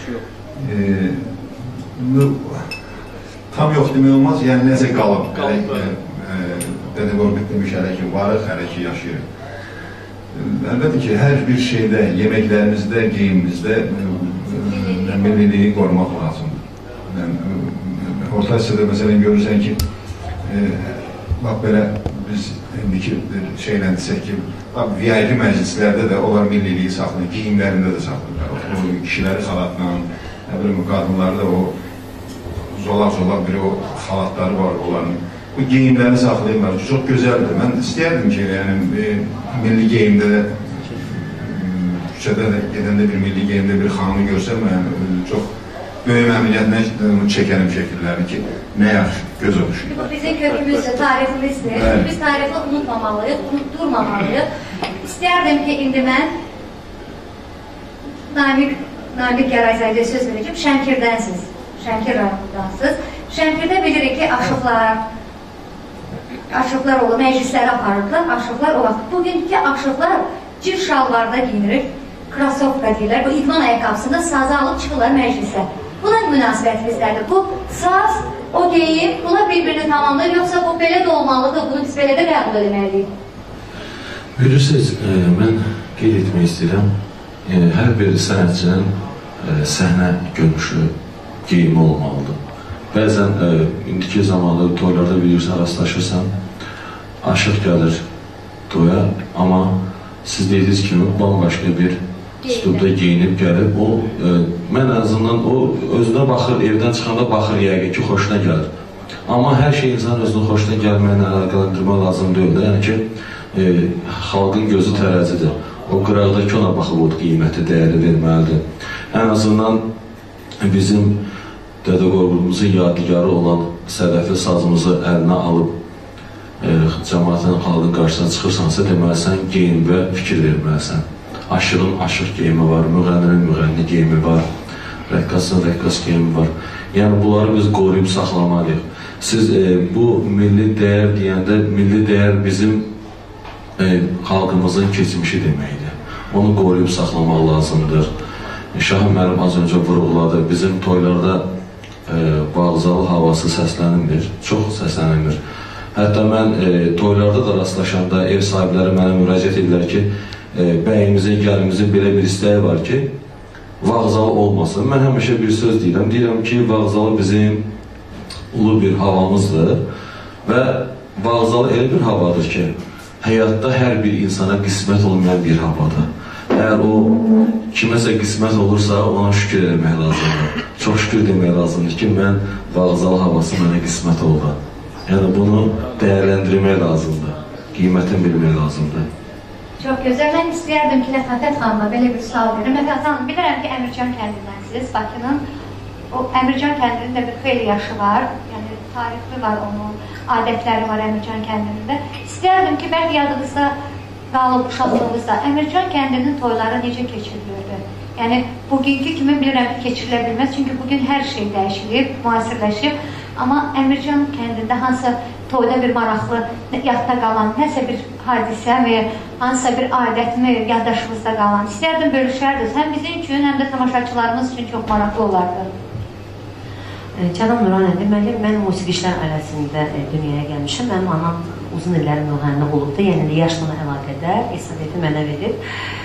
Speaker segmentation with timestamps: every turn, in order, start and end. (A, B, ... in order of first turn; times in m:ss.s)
0:00.6-0:02.7 A
0:03.5-0:09.2 A
0:10.3-0:19.8 A
0:14.7-0:15.4 B
0:20.4-0:31.7 A
0:32.5-0:45.5 A
0:46.0-0:49.9 A
0:49.9-0:54.5 B
0:51.7-0:52.1 A
0:55.0-0:56.3 B
0:58.3-1:05.0 B
1:06.5-1:23.1 B
1:24.4-1:26.9 C
1:27.4-1:30.9 C
1:31.4-1:32.4 C
1:32.9-1:36.3 C
1:37.2-1:38.0 C
1:38.7-1:48.7 C
1:49.3-1:59.8 C
2:00.6-2:01.2 C
2:01.8-2:05.7 C
2:06.6-2:14.5 C
2:15.1-2:22.9 C
2:23.8-2:28.1 C
2:28.7-2:31.4 C
2:32.1-2:35.4 C
2:36.0-2:43.1 C
2:43.8-2:47.7 C
2:48.5-2:49.8 C
2:50.4-3:09.1 C
3:09.8-3:15.4 B
3:16.1-3:23.7 B
3:24.3-3:45.7 B
3:47.2-3:55.6 D